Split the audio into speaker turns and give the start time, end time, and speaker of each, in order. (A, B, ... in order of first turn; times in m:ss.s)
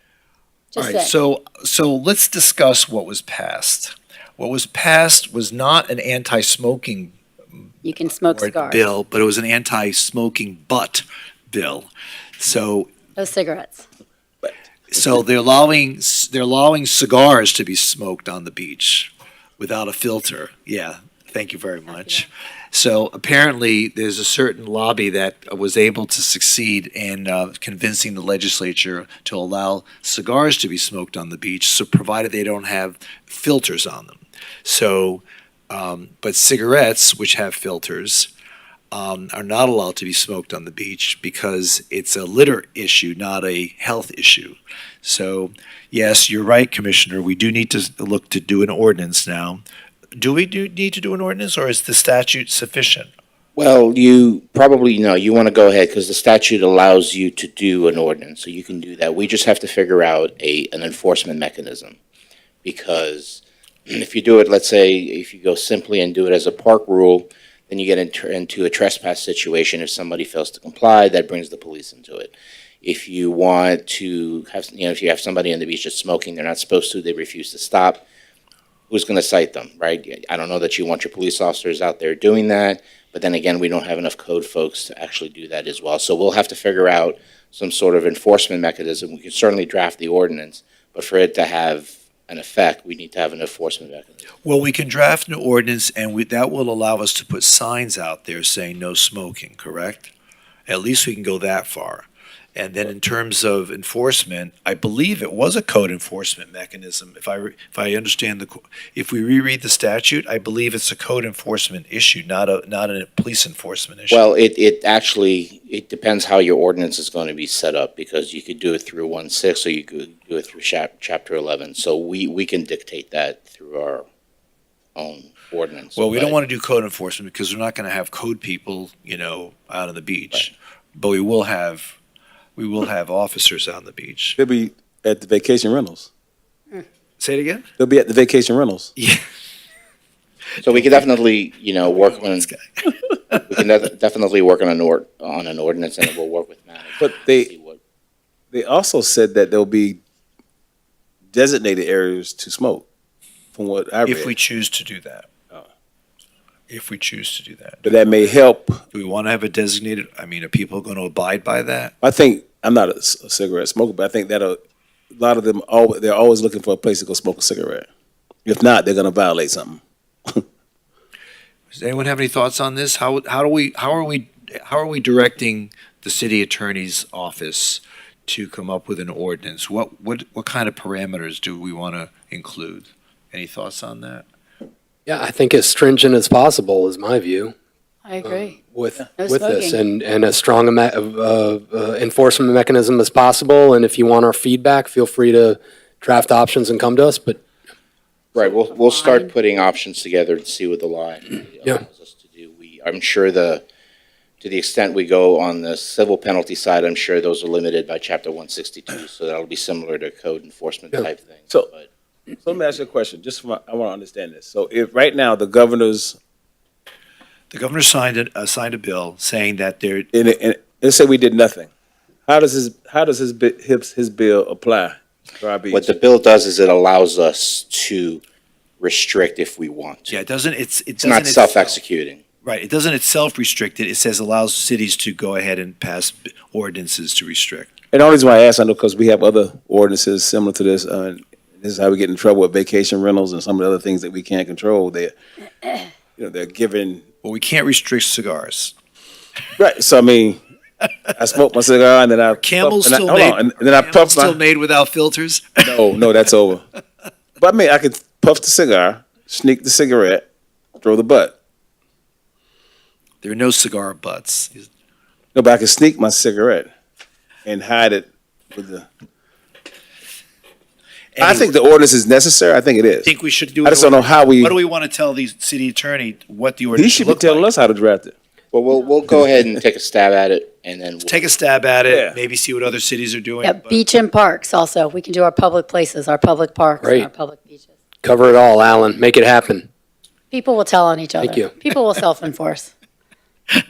0:00.7-0:01.1 A
0:00.8-0:07.2 B
0:07.8-0:08.8 A
0:08.3-0:12.9 B
0:13.2-0:13.8 A
0:14.9-0:38.3 B
0:21.9-0:22.2 A
0:38.9-0:49.6 B
0:50.2-0:53.1 B
0:53.6-1:02.0 C
1:02.6-1:18.0 C
1:18.9-1:34.2 C
1:34.4-1:40.1 B
1:40.7-1:54.2 B
1:54.1-2:04.0 C
2:05.0-2:06.4 C
2:05.9-2:11.9 B
2:12.6-2:14.4 B
2:14.4-2:16.1 D
2:17.2-2:17.6 B
2:17.8-2:18.9 D
2:19.0-2:19.2 B
2:20.6-2:22.5 C
2:22.3-2:22.6 B
2:23.4-2:27.8 C
2:27.0-2:27.5 D
2:28.5-2:30.0 D
2:31.3-2:32.8 D
2:33.5-2:34.3 D
2:34.0-2:35.3 B
2:36.7-2:37.8 B
2:37.8-2:38.8 D
2:38.9-2:41.9 B
2:42.0-2:44.6 D
2:45.1-2:47.9 D
2:48.4-2:50.4 D
2:51.7-3:04.2 B
3:05.1-3:07.5 E
3:08.0-3:08.6 A
3:08.2-3:17.4 E
3:09.2-3:09.8 A
3:18.3-3:23.6 C
3:18.8-3:19.3 A
3:24.4-3:31.9 C
3:32.4-3:36.2 D
3:37.5-3:40.1 B
3:40.1-3:41.7 D
3:42.3-3:45.9 D
3:45.7-3:48.2 C
3:48.8-3:50.2 C
3:50.1-3:51.8 B
3:51.0-3:52.2 C
3:52.4-3:57.7 B
3:57.9-4:05.1 D
4:06.2-4:07.0 D
4:07.2-4:08.7 B
4:09.6-4:10.4 D
4:11.2-4:14.4 D
4:12.3-4:15.7 B
4:15.6-4:16.6 D
4:17.4-4:20.2 D
4:20.8-4:21.4 D
4:23.2-4:24.7 B
4:25.3-4:26.7 D
4:27.4-4:28.9 D
4:31.2-4:31.5 B
4:31.2-4:33.1 D
4:33.0-4:37.5 B
4:33.6-4:34.6 D
4:36.7-4:38.1 D
4:38.5-4:41.2 C
4:41.0-4:43.8 B
4:41.9-4:42.2 D
4:43.4-4:47.8 A
4:46.8-4:47.1 E
4:48.0-4:49.6 E
4:50.3-4:52.7 A
4:51.2-4:51.5 E